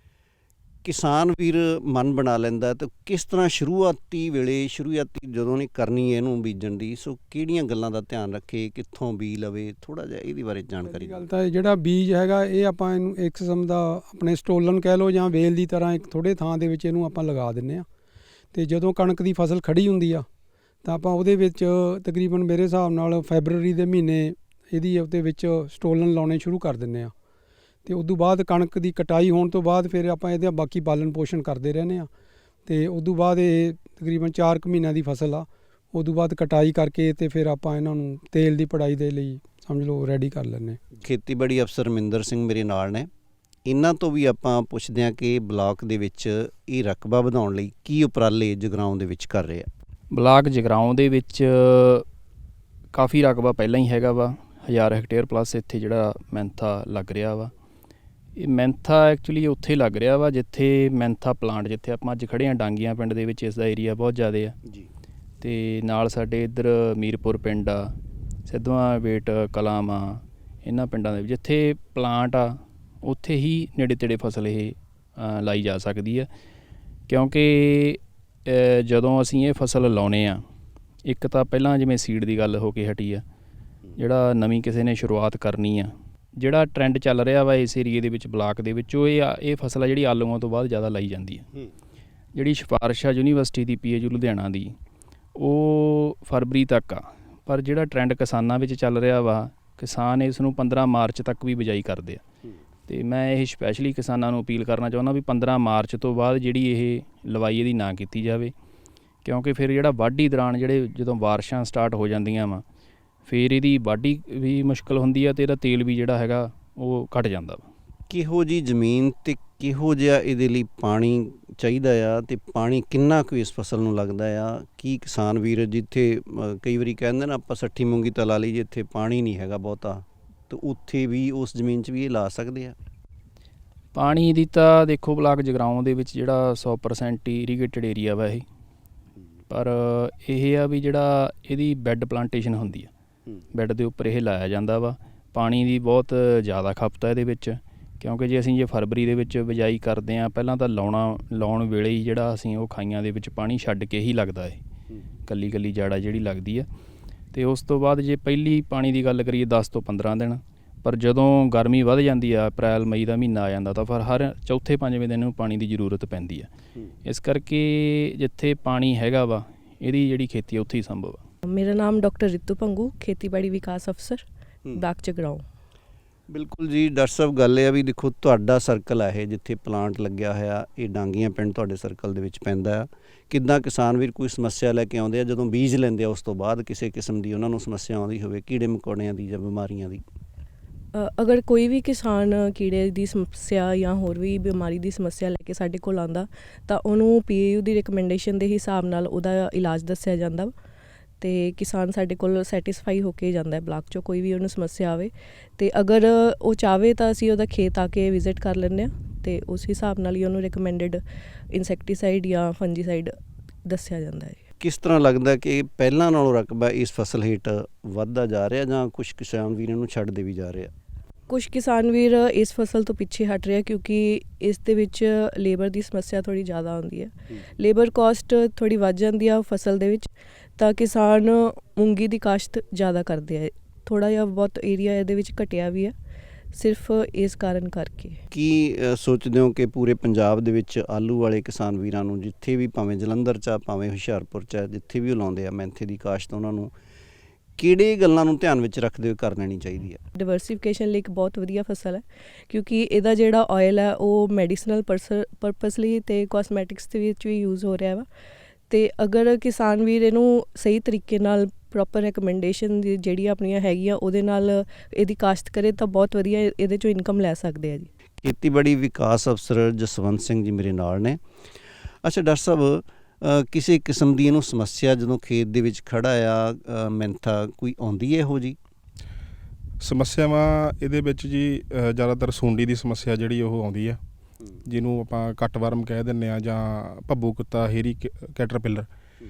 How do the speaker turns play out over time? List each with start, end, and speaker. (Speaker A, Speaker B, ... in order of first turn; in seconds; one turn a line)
Speaker A: 0.8-11.2
Speaker B: 10.8-17.9
Speaker B: 18.5-20.2
Speaker B: 20.8-27.1
Speaker B: 27.9-32.1
Speaker B: 32.6-40.8
Speaker A: 41.0-43.1
Speaker A: 43.6-49.7
Speaker C: 50.1-52.0
Speaker C: 52.9-57.5
Speaker C: 58.4-64.5
Speaker C: 65.4-67.9
Speaker C: 68.5-76.3
Speaker C: 77.1-80.4
Speaker C: 81.0-83.2
Speaker C: 84.0-91.5
Speaker C: 92.3-94.8
Speaker C: 95.3-102.2
Speaker C: 102.9-108.5
Speaker C: 109.2-112.6
Speaker C: 113.3-117.7
Speaker A: 118.1-132.7
Speaker C: 133.9-138.4
Speaker C: 139.5-142.9
Speaker C: 143.5-154.6
Speaker C: 155.3-156.7
Speaker C: 157.3-166.5
Speaker C: 167.0-171.2
Speaker D: 171.4-174.2
Speaker D: 174.8-175.4
Speaker A: 176.3-190.0
Speaker D: 190.9-200.5
Speaker D: 201.2-213.1
Speaker D: 213.7-214.4
Speaker A: 214.6-220.7
Speaker D: 221.3-235.9
Speaker D: 236.5-238.2
Speaker A: 238.3-246.7
Speaker A: 247.6-250.0
Speaker D: 250.2-258.1
Speaker D: 258.7-267.9
Speaker A: 268.2-271.2
Speaker A: 272.0-278.6
Speaker E: 279.8-284.0
Speaker E: 284.6-288.9